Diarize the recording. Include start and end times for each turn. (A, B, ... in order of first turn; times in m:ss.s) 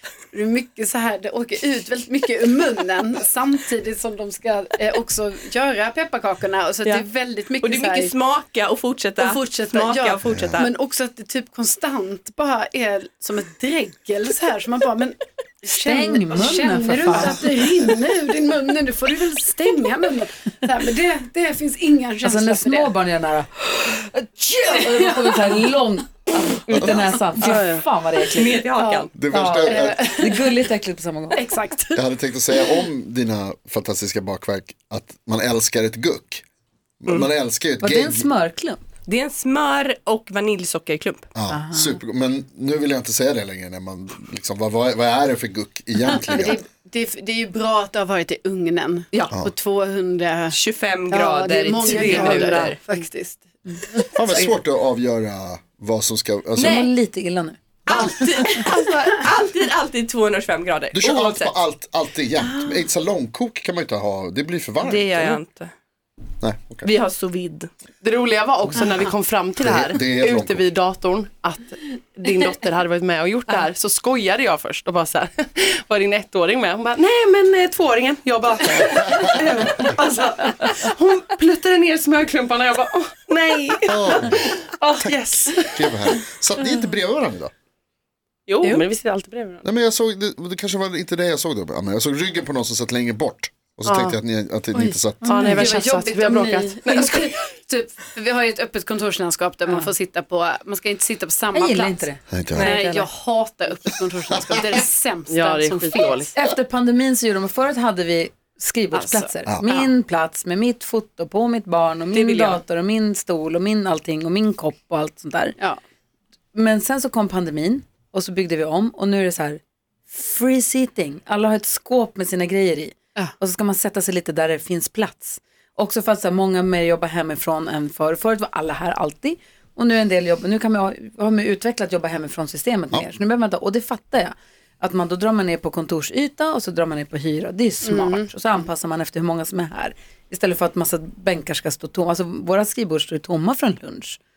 0:00.3-0:08.1 A
0:07.6-0:10.7 B
0:09.2-0:22.9 A
0:10.3-0:10.6 C
0:15.7-0:17.4 D
0:22.2-0:28.7 D
0:26.7-0:27.8 E
0:28.2-0:29.1 B
0:28.8-0:30.5 A
0:29.1-0:30.2 C
0:29.3-0:31.4 D
0:31.3-0:32.0 A
0:31.9-0:36.4 C
0:37.0-0:38.3 C
0:37.8-0:38.8 D
0:39.1-0:41.2 B
0:41.3-0:46.6 C
0:41.5-0:42.0 D
0:46.2-0:50.6 A
0:50.5-0:52.8 B
0:51.1-0:54.2 A
0:52.0-0:52.8 E
0:54.1-0:56.8 C
0:56.6-0:56.9 B
0:56.6-0:58.6 D
0:57.9-1:01.5 B
1:00.9-1:05.4 C
1:04.8-1:05.7 B
1:06.4-1:06.9 C
1:06.8-1:07.7 B
1:08.0-1:23.2 E
1:09.6-1:10.6 C
1:23.3-1:24.2 B
1:23.9-1:27.5 C
1:24.3-1:25.9 E
1:28.5-1:29.6 E
1:29.6-1:35.6 C
1:33.8-1:34.2 E
1:34.7-1:42.0 A
1:35.2-1:37.3 E
1:35.2-1:35.5 D
1:41.5-1:42.2 D
1:42.3-1:42.8 C
1:42.6-1:43.0 B
1:42.6-1:46.3 A
1:45.3-1:46.3 E
1:46.3-1:55.6 D
1:48.9-1:49.9 A
1:52.3-1:52.6 E
1:56.5-2:24.2 D
2:17.8-2:18.3 A